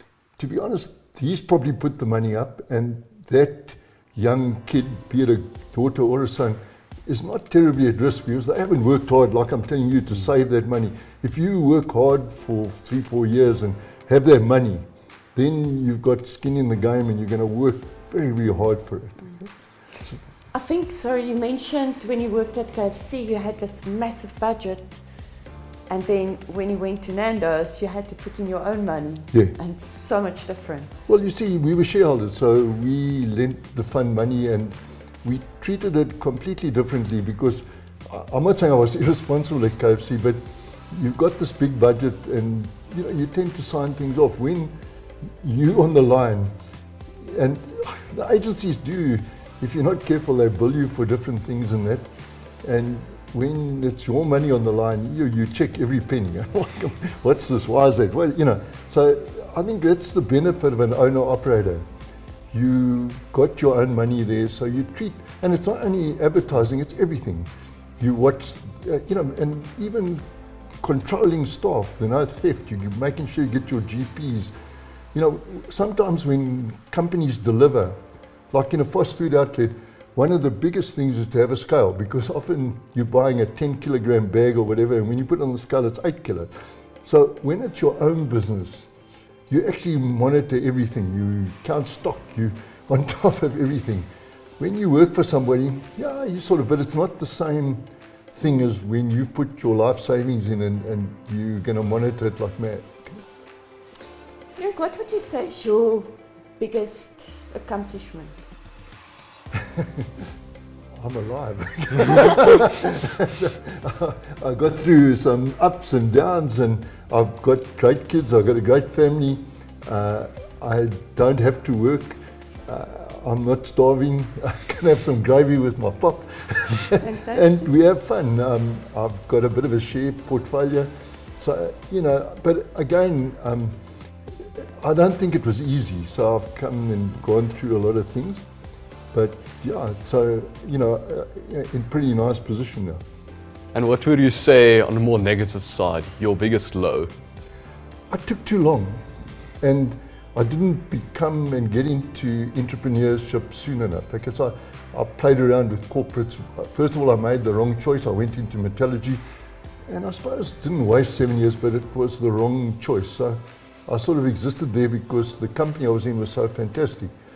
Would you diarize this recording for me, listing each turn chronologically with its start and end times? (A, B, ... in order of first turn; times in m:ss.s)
0:00.4-0:20.2 A
0:20.5-0:25.0 B
0:25.9-0:30.9 B
0:31.1-0:44.8 A
0:45.3-0:46.5 A
0:47.2-0:52.1 A
0:52.6-1:01.9 A
1:02.5-1:10.2 A
1:10.8-1:14.5 A
1:15.1-1:18.0 A
1:18.5-1:26.5 A
1:27.0-1:28.9 A
1:29.5-1:43.2 A
1:44.6-1:48.4 B
1:49.6-1:50.1 A
1:51.0-2:13.8 A
2:07.0-2:07.7 B
2:14.4-2:18.4 A
2:19.1-2:23.0 A
2:23.7-2:27.1 C
2:28.1-2:29.0 A
2:29.6-2:39.2 A
2:39.9-2:47.1 A